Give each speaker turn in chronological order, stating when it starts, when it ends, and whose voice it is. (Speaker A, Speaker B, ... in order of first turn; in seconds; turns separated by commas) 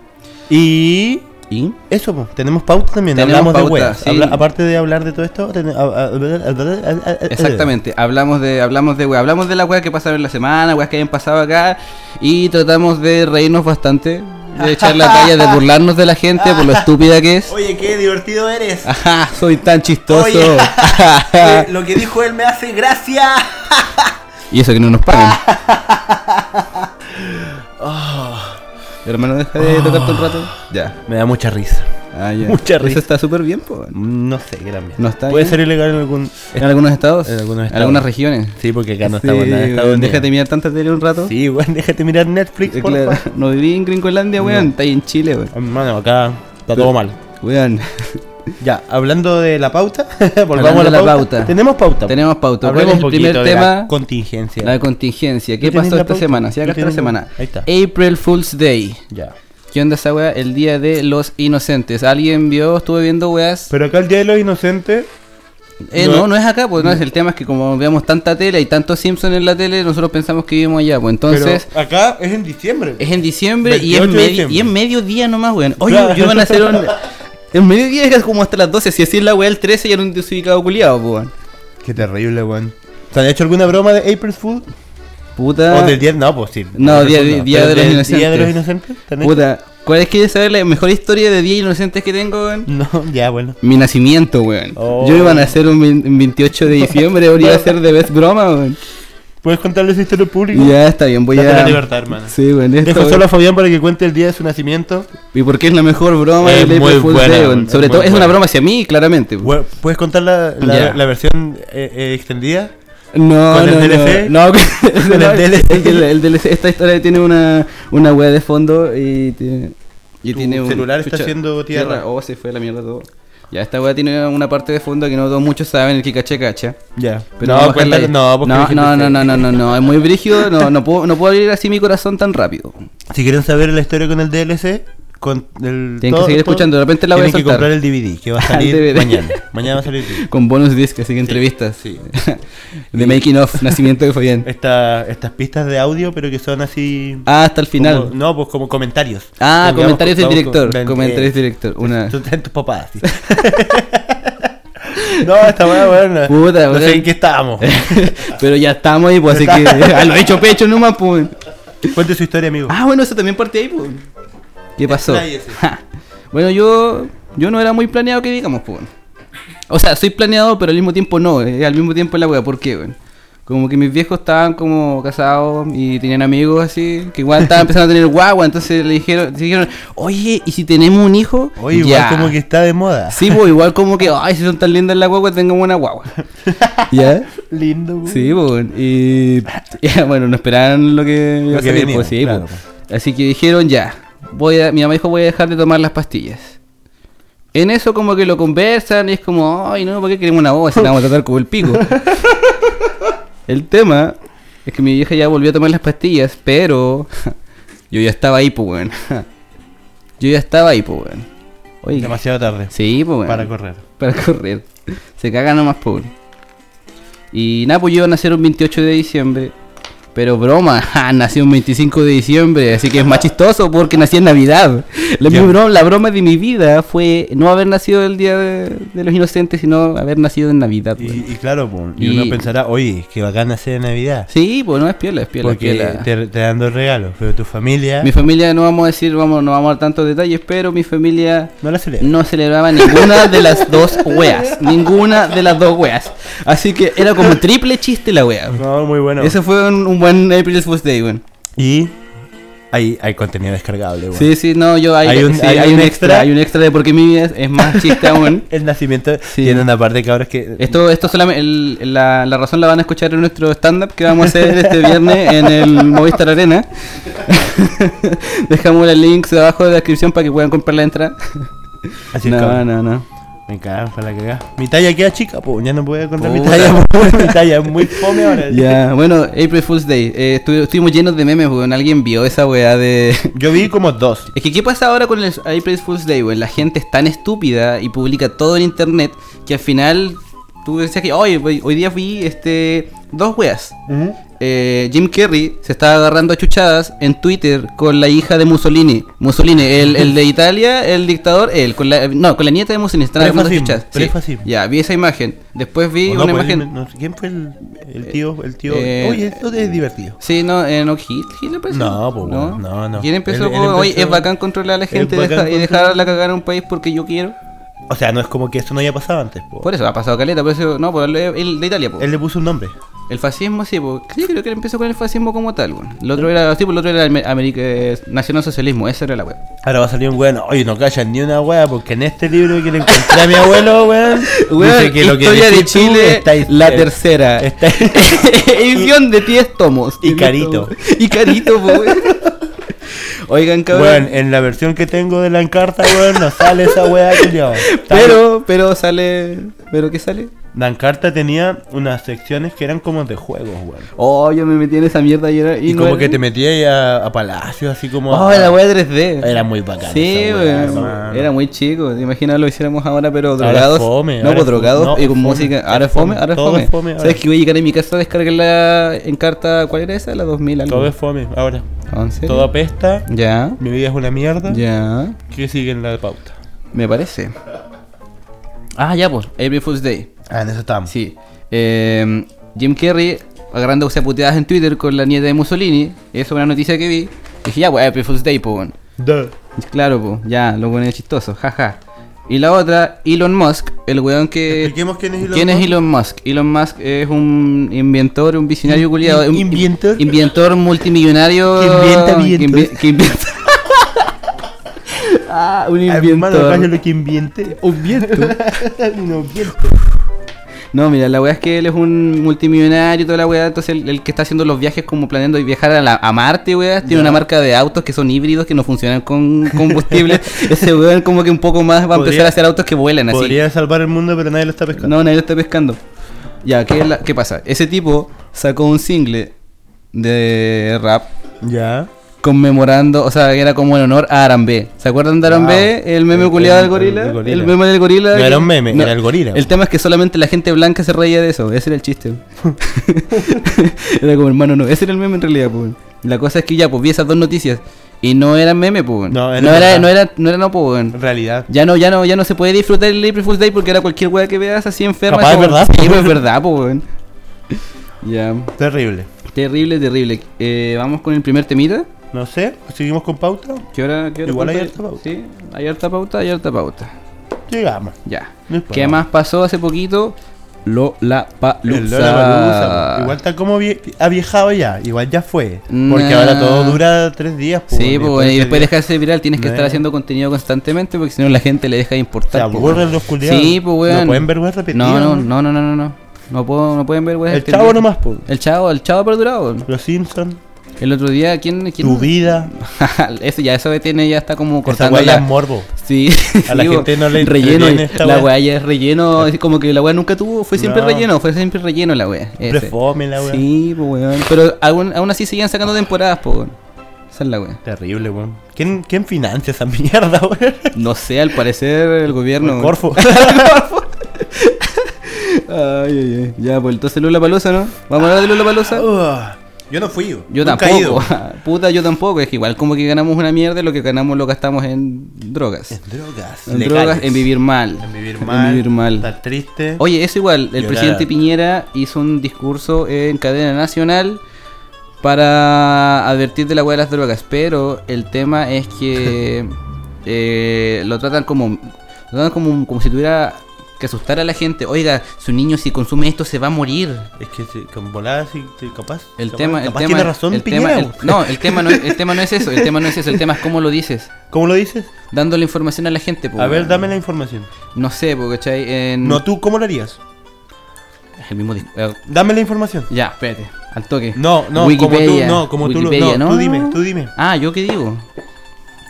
Speaker A: 0.5-1.3, Speaker B: 1.5-1.8, Speaker A: 1.9-7.7, Speaker B: 3.1-4.4, Speaker B: 7.3-17.5, Speaker A: 14.6-15.6, Speaker A: 16.4-16.9, Speaker A: 17.5-18.9, Speaker B: 18.9-21.7, Speaker A: 20.1-24.1, Speaker B: 24.5-25.4, Speaker A: 25.1-28.6, Speaker B: 29.1-31.0, Speaker A: 29.6-30.5, Speaker A: 31.1-31.9, Speaker B: 32.1-34.0, Speaker A: 32.4-33.0, Speaker A: 33.9-36.7, Speaker B: 35.0-35.6, Speaker B: 36.6-41.3, Speaker A: 37.2-40.3, Speaker A: 41.2-43.2, Speaker B: 42.7-45.5, Speaker A: 44.4-44.7, Speaker A: 45.5-47.2, Speaker B: 46.8-48.2, Speaker A: 48.6-54.8, Speaker B: 50.5-53.9, Speaker B: 54.6-59.0, Speaker A: 55.6-57.7, Speaker A: 59.1-59.4, Speaker B: 59.7-63.7, Speaker A: 63.7-65.1, Speaker B: 65.9-71.7, Speaker A: 66.0-67.0, Speaker A: 71.3-74.7, Speaker B: 73.0-81.3, Speaker A: 75.8-77.0, Speaker A: 81.8-84.7, Speaker B: 85.4-86.0, Speaker A: 85.7-89.5, Speaker B: 86.8-88.6, Speaker B: 89.2-92.7, Speaker A: 92.7-93.6, Speaker B: 93.6-98.8, Speaker A: 94.8-95.5, Speaker A: 96.8-97.7, Speaker A: 99.4-100.8, Speaker B: 100.5-103.2, Speaker A: 101.3-105.1, Speaker B: 105.3-109.5, Speaker A: 106.4-108.4, Speaker A: 109.4-112.7, Speaker B: 110.6-111.0, Speaker B: 113.1-126.8, Speaker A: 113.5-114.3, Speaker A: 115.0-116.1, Speaker A: 120.3-122.0, Speaker A: 127.0-129.7, Speaker B: 127.4-132.9, Speaker A: 130.3-130.7, Speaker A: 133.1-140.3, Speaker B: 136.0-137.7, Speaker B: 138.4-139.4, Speaker B: 140.1-144.5, Speaker A: 141.2-142.1, Speaker A: 142.9-143.8, Speaker A: 144.4-158.4, Speaker B: 147.3-148.1, Speaker B: 149.4-152.2, Speaker B: 153.1-153.4, Speaker B: 154.9-162.0, Speaker A: 159.3-160.4, Speaker A: 161.9-162.8, Speaker B: 162.7-164.0, Speaker B: 164.8-165.8, Speaker A: 164.9-165.6, Speaker B: 166.3-168.9, Speaker B: 169.7-173.0, Speaker B: 173.5-182.3, Speaker A: 181.6-183.4, Speaker B: 183.1-186.2, Speaker A: 186.4-188.4, Speaker B: 186.9-187.3, Speaker B: 188.1-196.6, Speaker A: 191.5-192.6, Speaker B: 197.5-201.9, Speaker A: 201.7-202.4, Speaker B: 203.5-207.3, Speaker B: 207.9-209.3, Speaker B: 210.2-211.3, Speaker B: 211.8-212.2, Speaker A: 211.9-212.7, Speaker B: 212.7-216.1, Speaker A: 213.2-213.8, Speaker B: 217.3-219.5, Speaker B: 220.2-231.3, Speaker A: 225.3-225.6, Speaker A: 231.0-234.3, Speaker B: 232.0-232.4, Speaker B: 234.3-236.1, Speaker A: 235.4-238.1, Speaker B: 238.0-248.6, Speaker A: 241.6-242.1, Speaker A: 242.8-244.9, Speaker A: 248.6-249.4, Speaker B: 249.2-251.2, Speaker A: 251.6-252.0, Speaker A: 252.7-254.3, Speaker B: 254.1-258.5, Speaker A: 255.0-256.3, Speaker A: 257.6-260.8, Speaker B: 259.4-259.6, Speaker B: 260.6-271.5, Speaker A: 264.1-266.1, Speaker A: 272.1-272.6, Speaker B: 272.2-273.1, Speaker A: 273.5-278.8, Speaker B: 276.2-283.4, Speaker A: 283.3-284.3, Speaker B: 284.3-293.8, Speaker A: 293.9-294.2, Speaker B: 294.4-306.7, Speaker A: 303.2-304.5, Speaker A: 306.1-310.2, Speaker B: 308.7-309.4, Speaker B: 310.2-317.4, Speaker A: 311.7-314.3, Speaker A: 314.9-316.1, Speaker A: 317.9-319.7, Speaker B: 319.6-322.1, Speaker A: 322.0-322.8, Speaker B: 323.1-329.4, Speaker A: 329.6-339.1, Speaker B: 332.9-333.6, Speaker B: 334.3-342.2, Speaker A: 340.0-342.3, Speaker B: 342.9-344.1, Speaker A: 343.7-348.2, Speaker B: 345.9-350.3, Speaker A: 350.5-353.9, Speaker B: 354.0-356.2, Speaker A: 355.7-358.6, Speaker B: 358.1-370.9, Speaker A: 359.2-361.3, Speaker A: 363.4-367.2, Speaker A: 370.7-371.7, Speaker B: 371.9-372.5, Speaker A: 372.2-374.6, Speaker B: 373.1-373.6, Speaker B: 374.5-375.2, Speaker A: 375.3-376.4, Speaker B: 376.7-377.4, Speaker B: 378.8-380.1, Speaker A: 380.3-380.9, Speaker B: 380.9-388.8, Speaker A: 389.0-389.3, Speaker B: 389.6-404.0, Speaker A: 394.5-395.8, Speaker A: 398.6-400.2, Speaker A: 401.6-402.9, Speaker B: 404.9-406.7, Speaker A: 405.9-409.8, Speaker B: 407.5-408.4, Speaker B: 410.7-423.4, Speaker A: 416.8-417.2, Speaker A: 419.5-420.5, Speaker A: 421.9-422.4, Speaker A: 423.1-424.9, Speaker B: 424.8-425.8, Speaker B: 426.4-429.3, Speaker B: 429.9-431.1, Speaker A: 431.4-431.9, Speaker B: 432.2-451.0, Speaker A: 435.2-437.6, Speaker A: 438.1-439.5, Speaker A: 443.1-443.4, Speaker A: 449.1-449.9, Speaker A: 450.9-451.5, Speaker B: 451.5-456.9, Speaker A: 455.1-456.2, Speaker B: 457.5-458.5, Speaker A: 458.6-459.1, Speaker B: 459.3-461.9, Speaker A: 462.1-463.7, Speaker B: 463.7-466.9, Speaker A: 464.2-465.0, Speaker A: 467.5-468.0, Speaker B: 468.1-473.1, Speaker A: 468.5-469.0, Speaker A: 471.6-478.7, Speaker B: 475.7-476.8, Speaker B: 477.7-489.7, Speaker A: 479.4-479.8, Speaker A: 482.3-485.3, Speaker A: 487.3-488.3, Speaker A: 489.7-490.4, Speaker B: 490.8-506.6, Speaker A: 491.8-492.5, Speaker A: 494.7-495.7, Speaker A: 496.5-498.3, Speaker A: 500.6-501.1, Speaker A: 502.4-503.4, Speaker B: 507.1-507.6, Speaker A: 507.6-510.8, Speaker B: 510.8-518.9, Speaker A: 512.4-513.6, Speaker A: 518.2-521.1, Speaker B: 520.3-525.8, Speaker A: 525.7-527.3, Speaker B: 526.5-529.1, Speaker A: 527.8-529.8, Speaker B: 529.8-534.2, Speaker A: 530.6-531.1, Speaker B: 535.0-539.5, Speaker B: 540.0-547.1, Speaker A: 547.2-553.2, Speaker B: 549.2-554.1, Speaker A: 554.3-554.9, Speaker B: 555.1-556.9, Speaker A: 556.4-557.5, Speaker B: 557.7-559.2, Speaker A: 559.0-560.0, Speaker B: 561.2-562.0, Speaker A: 562.1-562.9, Speaker B: 562.9-568.0, Speaker A: 564.1-567.1